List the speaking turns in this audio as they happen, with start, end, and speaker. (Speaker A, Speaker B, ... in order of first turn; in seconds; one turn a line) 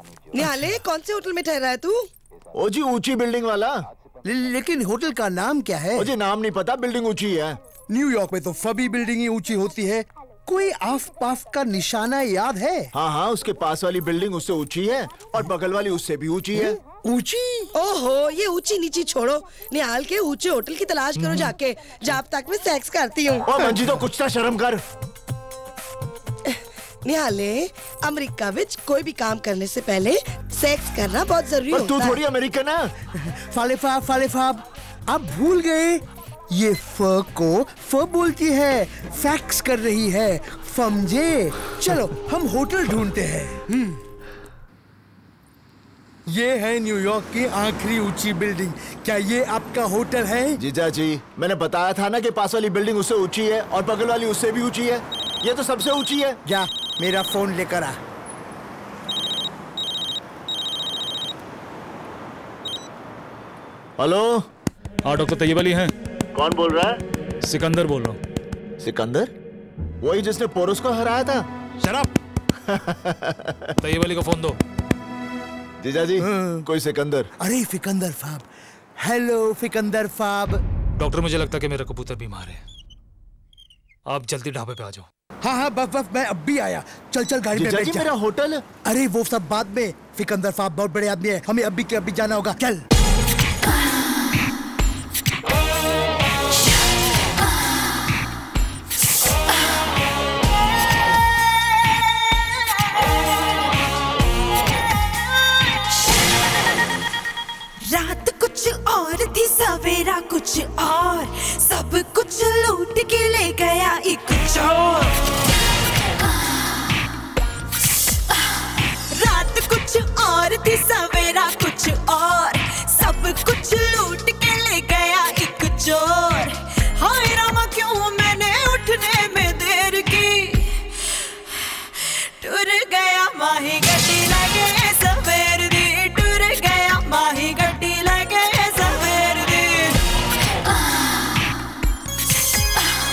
Speaker A: 0.3-2.1
Speaker B: 0.4-0.8
Speaker C: 2.5-3.8
Speaker B: 4.2-6.1
Speaker C: 6.0-7.6
Speaker B: 7.9-12.9
Speaker C: 12.9-16.8
Speaker B: 16.5-17.7
Speaker A: 17.8-23.8
Speaker D: 21.2-21.5
Speaker C: 23.5-24.8
Speaker A: 26.5-32.2
Speaker C: 31.7-32.9
Speaker B: 33.3-44.0
Speaker B: 46.3-50.6
Speaker C: 50.6-56.4
Speaker B: 56.5-58.0
Speaker C: 64.0-64.5
Speaker D: 65.0-65.9
Speaker C: 66.3-67.0
Speaker D: 67.4-68.2
Speaker C: 68.8-69.3
Speaker C: 70.0-71.5
Speaker C: 72.7-73.7
Speaker D: 73.8-74.6
Speaker C: 75.8-77.3
Speaker B: 76.2-76.7
Speaker B: 77.4-78.5
Speaker B: 79.0-80.6
Speaker D: 81.0-82.6
Speaker D: 84.1-85.1
Speaker B: 85.4-88.1
Speaker C: 87.5-88.6
Speaker B: 88.8-92.8
Speaker E: 107.8-114.9
Speaker E: 119.2-140.0